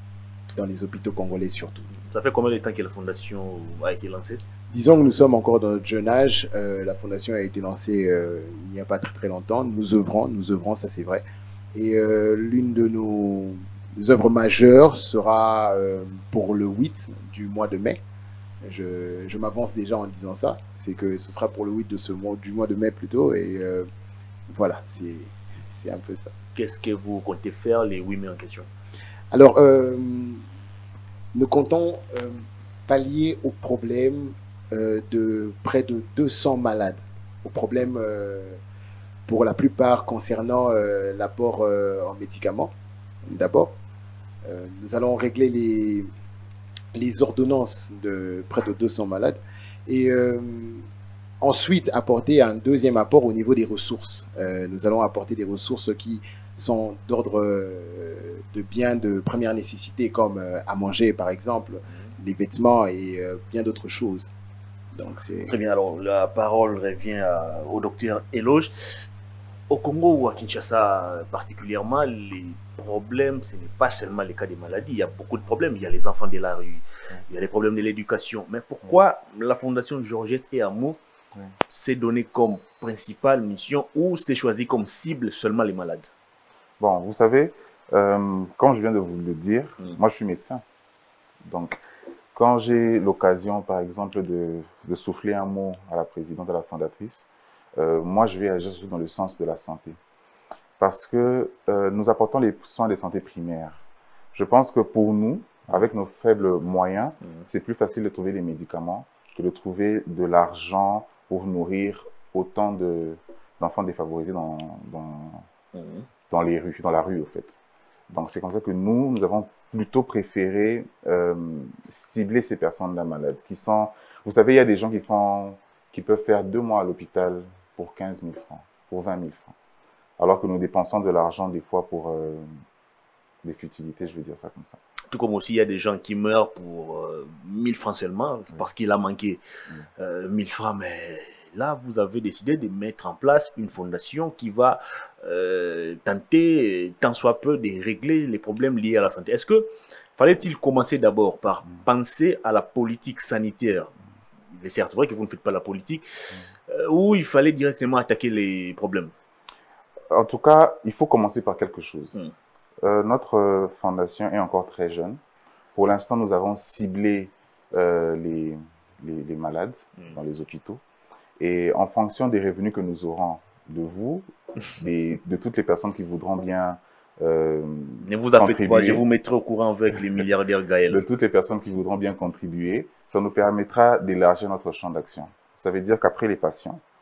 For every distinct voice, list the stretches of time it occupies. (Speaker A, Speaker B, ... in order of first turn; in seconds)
Speaker A: 0.5-1.9, 4.7-11.2, 11.7-18.0, 18.6-23.9, 24.5-26.3, 29.3-30.4, 31.3-38.6, 39.3-42.7, 43.2-43.7, 44.4-46.1, 46.9-50.8, 51.4-64.3, 64.9-65.5
Speaker B: 2.0-4.4, 26.5-28.7, 65.5-68.7, 69.7-81.0, 81.7-86.1, 115.7-116.1, 135.1-139.4, 140.0-153.9, 154.5-159.1, 178.0-181.0
Speaker C: 86.8-90.6, 91.4-91.8, 92.3-100.0, 100.8-103.8, 104.3-115.5, 116.3-129.5, 130.2-132.5, 133.4-134.8, 160.1-162.2, 162.8-165.2, 165.7-170.8, 171.4-179.0, 180.9-186.8